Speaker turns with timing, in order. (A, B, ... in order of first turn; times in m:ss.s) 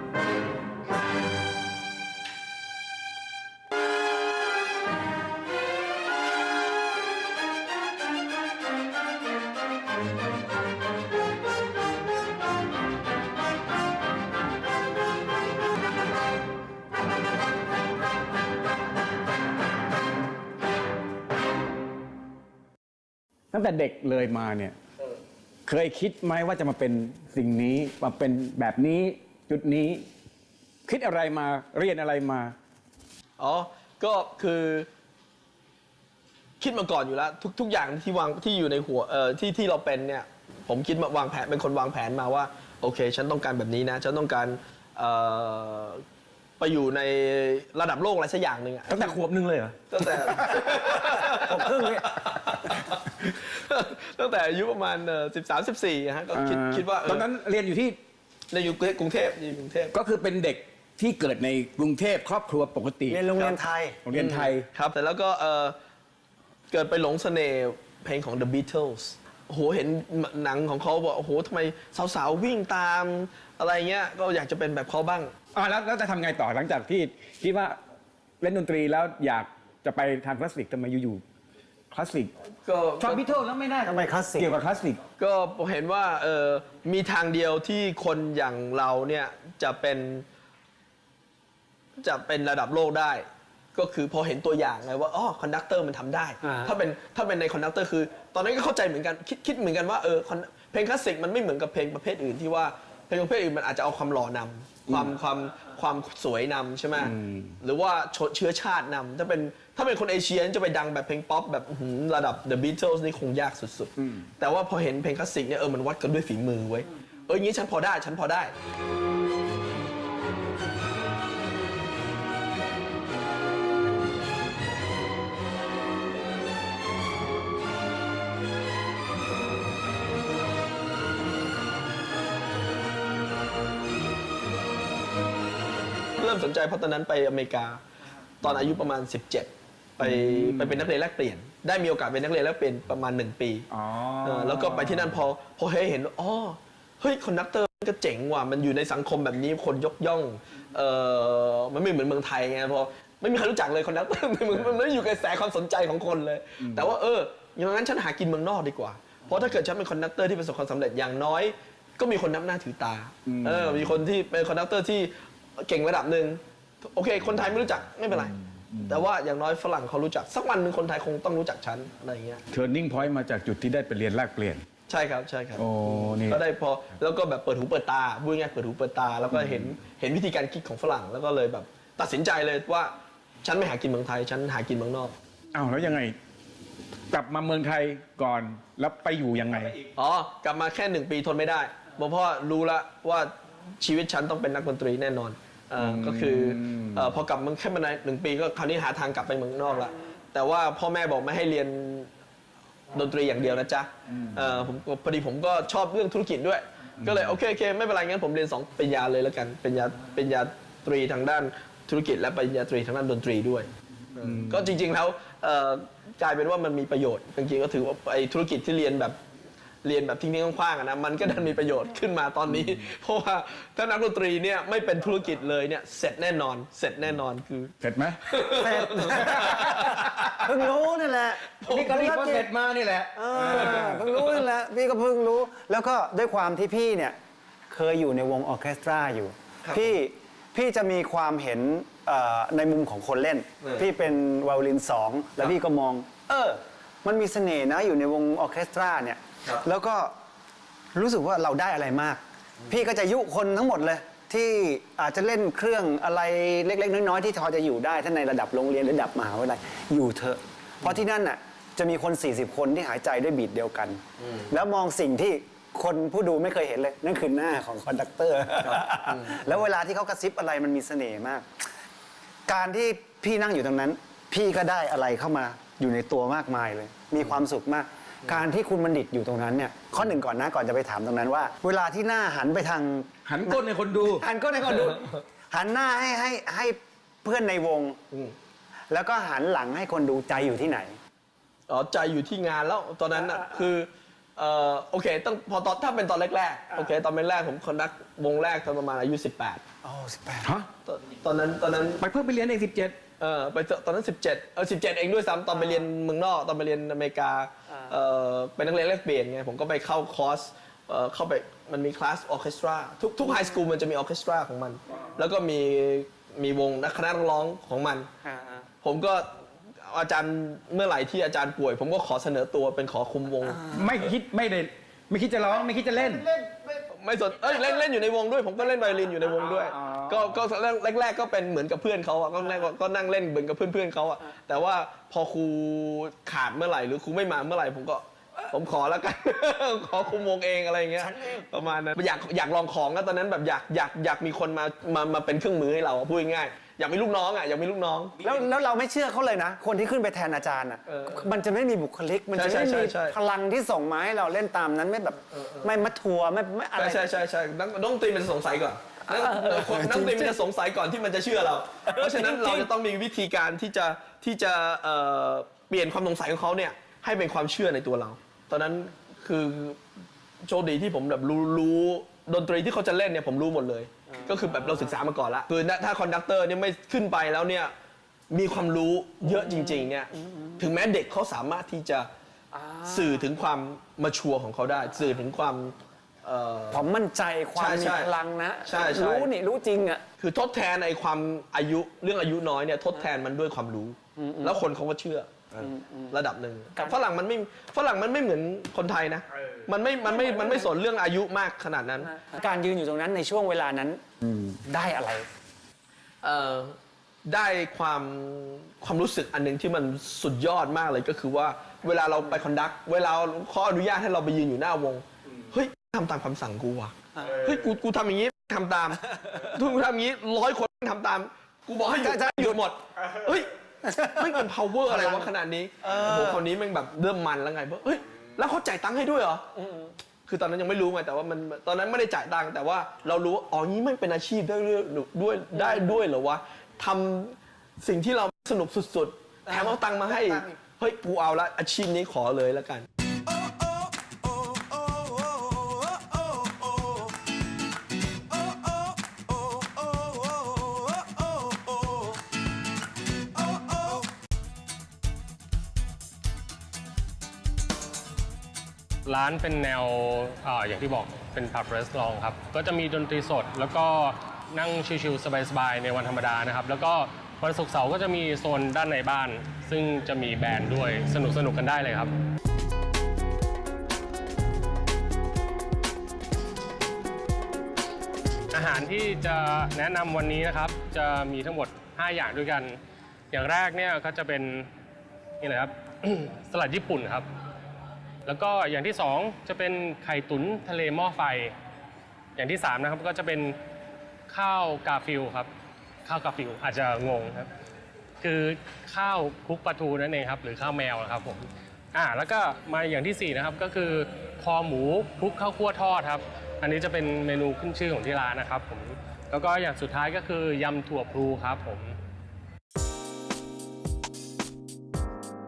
0:23.5-0:24.8 A
0:25.7-0:30.1 A
0:30.9-0:32.6 A
0:33.4-0:34.9 B
0:36.6-0:46.0 B
0:46.6-0:49.2 B
0:48.9-0:50.6 A
0:49.9-0:57.2 B
0:51.5-0:52.0 A
0:56.3-0:58.0 A
0:58.5-0:59.9 B
0:59.9-1:03.2 A
1:03.1-1:04.0 C
1:04.0-1:04.6 A
1:04.1-1:05.8 B
1:06.7-1:15.3 B
1:15.6-1:17.8 A
1:18.4-1:21.2 A
1:21.9-1:22.3 A
1:22.6-1:23.2 B
1:23.0-1:25.0 A
1:23.8-1:24.5 C
1:25.2-1:30.2 B
1:32.0-1:58.5 B
1:36.4-1:36.7 C
1:47.0-1:47.6 A
2:16.2-2:17.8 B
2:18.4-2:23.7 B
2:20.0-2:20.8 A
2:23.7-2:25.1 A
2:24.2-2:52.4 B
2:36.6-2:36.9 A
2:43.3-2:44.0 A
2:48.8-2:49.0 A
2:52.5-2:54.6 A
2:54.9-3:05.2 B
2:55.6-2:56.4 A
2:59.3-2:59.6 A
3:05.5-3:06.2 A
3:07.1-3:09.8 A
3:10.0-3:22.1 B
3:15.8-3:17.0 A
3:22.9-3:39.2 B
3:34.2-3:34.6 A
3:39.8-3:50.4 B
3:47.8-3:48.2 A
3:48.6-3:52.5 C
3:49.1-3:50.1 A
3:51.6-3:52.1 B
3:51.6-3:54.0 A
3:53.2-3:57.2 C
3:57.7-4:10.1 C
3:59.6-3:59.9 B
4:11.0-4:31.5 C
4:28.7-4:29.4 B
4:32.5-4:48.0 C
4:43.3-4:44.2 A
4:48.9-4:51.0 C
4:51.7-4:59.6 B
4:59.8-5:00.5 C
5:00.4-5:00.7 A
5:00.9-5:02.0 B
5:02.0-5:03.0 A
5:03.2-5:18.1 B
5:18.2-5:18.6 C
5:18.8-5:19.3 B
5:19.8-5:23.6 B
5:23.7-5:26.3 A
5:26.0-5:26.8 C
5:26.9-5:48.2 B
5:29.7-5:30.2 A
5:41.0-5:41.4 C
5:48.2-5:57.1 C
5:50.9-5:51.3 B
5:52.3-5:53.2 B
5:55.3-5:55.7 B
5:56.8-6:09.8 B
5:59.1-6:00.4 C
6:01.9-6:02.7 C
6:10.4-6:17.7 B
6:14.1-6:15.0 C
6:18.3-6:22.1 B
6:19.2-6:20.5 C
6:22.5-6:23.2 C
6:22.8-6:26.9 B
6:26.7-6:30.0 C
6:27.6-6:28.1 B
6:28.7-6:29.3 B
6:30.2-6:42.1 B
6:34.2-6:34.6 C
6:35.6-6:36.2 C
6:40.1-6:40.6 C
6:42.2-6:45.3 C
6:46.2-7:03.5 B
7:02.0-7:02.6 C
7:03.8-7:05.3 C
7:04.1-7:09.5 B
7:05.8-7:06.4 C
7:10.3-7:22.9 B
7:19.5-7:20.6 C
7:39.1-7:52.1 D
7:58.5-8:02.8 D
8:03.3-8:04.7 D
8:05.4-8:07.3 D
8:08.3-8:11.5 D
8:12.4-8:13.6 D
8:14.3-8:15.5 D
8:16.0-8:17.5 D
8:18.2-8:31.9 D